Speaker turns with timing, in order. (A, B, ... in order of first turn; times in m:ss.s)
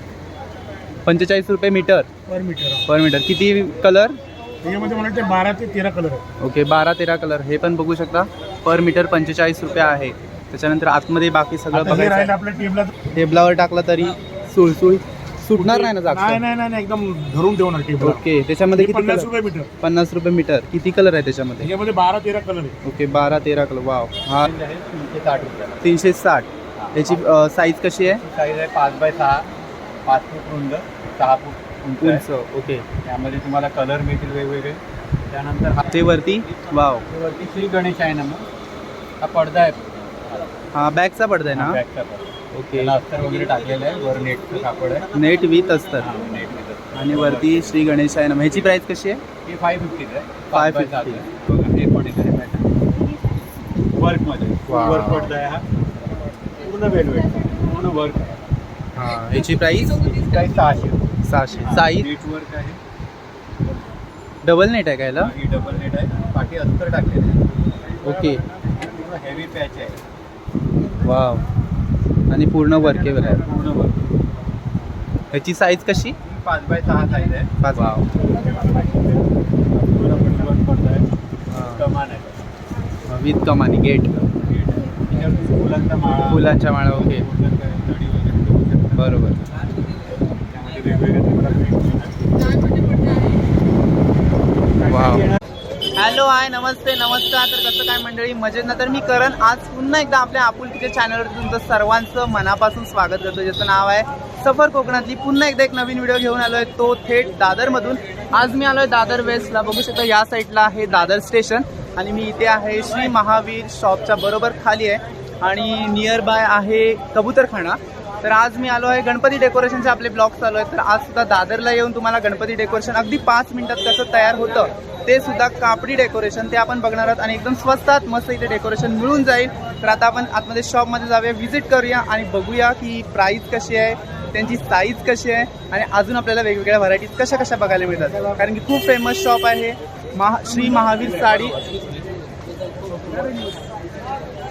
0:01.0-0:02.1 A
0:02.3-0:02.9 B
0:02.9-0:04.2 A
0:04.6-0:06.2 B
0:06.4-0:12.3 A
0:11.7-0:12.9 B
0:13.2-0:16.4 A
0:15.6-0:18.2 B
0:18.0-0:21.7 A
0:18.7-0:19.7 B
0:21.6-0:22.8 B
0:22.8-0:24.5 A
0:24.4-0:25.8 C
0:25.8-0:28.2 A
0:26.8-0:27.2 C
0:28.0-0:29.5 C
0:30.1-0:32.2 C
0:32.0-0:32.8 A
0:33.0-0:36.2 C
0:35.9-0:37.0 A
0:37.1-0:38.5 C
0:39.2-0:40.6 C
0:40.7-0:41.8 A
0:41.5-0:45.2 C
0:42.5-0:43.0 A
0:45.1-0:46.1 A
0:45.9-0:48.0 C
0:47.0-0:49.2 A
0:49.4-0:52.8 C
0:50.5-0:51.2 A
0:53.9-0:55.7 C
0:54.7-0:55.3 A
0:56.4-0:58.4 C
0:59.0-1:00.2 A
1:00.1-1:02.8 C
1:01.3-1:02.1 A
1:04.4-1:05.3 A
1:05.2-1:07.5 C
1:08.0-1:08.4 A
1:08.7-1:10.0 C
1:11.0-1:11.4 A
1:12.3-1:13.4 A
1:13.0-1:14.1 C
1:15.3-1:16.2 A
1:16.2-1:17.6 C
1:17.6-1:18.1 A
1:18.2-1:22.4 C
1:21.5-1:21.8 A
1:23.1-1:24.3 A
1:24.3-1:29.2 C
1:26.3-1:27.3 A
1:29.0-1:29.4 A
1:30.5-1:33.0 C
1:34.8-1:35.3 A
1:36.0-2:21.6 A
2:20.6-2:21.8 B